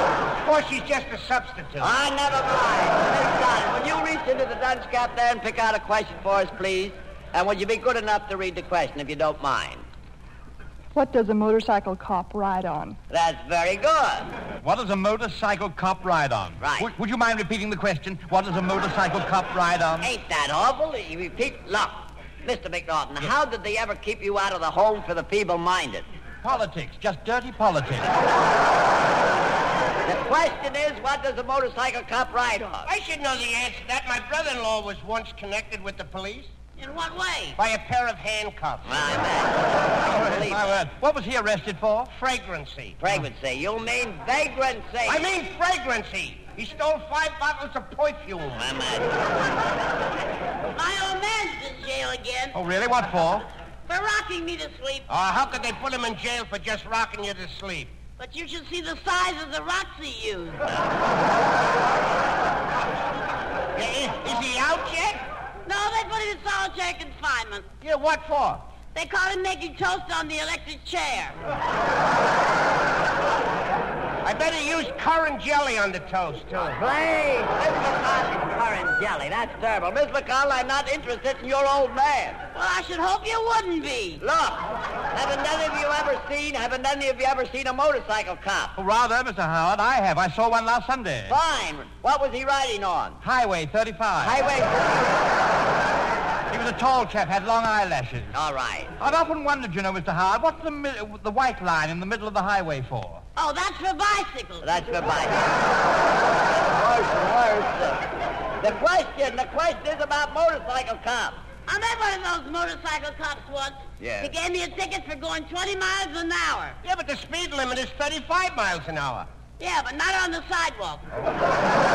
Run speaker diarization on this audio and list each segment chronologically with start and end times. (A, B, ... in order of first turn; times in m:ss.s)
0:00.4-0:01.9 A
0:01.8-0:09.9 B
0:10.9-0:13.0 C
0:13.1-0:14.3 B
0:14.6-0:20.1 D
0:16.6-0:16.9 B
0:20.0-0:26.1 B
0:26.4-0:28.1 D
0:30.0-0:32.9 B
0:32.8-0:36.5 A
0:36.8-0:37.6 E
0:37.6-0:39.1 A
0:38.8-0:40.8 B
0:40.1-0:42.1 D
0:42.1-0:43.0 A
0:43.0-0:45.3 B
0:45.1-0:48.6 A
0:48.6-0:49.2 B
0:50.7-0:52.6 E
0:52.5-0:53.5 D
0:53.9-0:55.1 E
0:55.1-0:57.9 A
0:58.2-1:00.7 E
1:03.8-1:05.2 A
1:05.7-1:07.7 E
1:07.9-1:08.6 A
1:08.9-1:11.4 E
1:14.2-1:16.8 A
1:16.6-1:22.4 B
1:22.5-1:24.2 E
1:24.2-1:28.8 B
1:28.8-1:31.4 D
1:31.3-1:33.2 B
1:33.2-1:34.4 D
1:34.2-1:35.1 B
1:36.5-1:38.4 D
1:38.3-1:38.9 B
1:39.0-1:43.2 D
1:43.4-1:44.7 E
1:44.6-1:45.7 B
1:46.3-1:48.1 B
1:48.6-1:51.4 B
1:51.7-1:56.8 E
1:54.0-1:54.3 B
1:56.8-1:59.3 A
1:59.6-2:01.0 E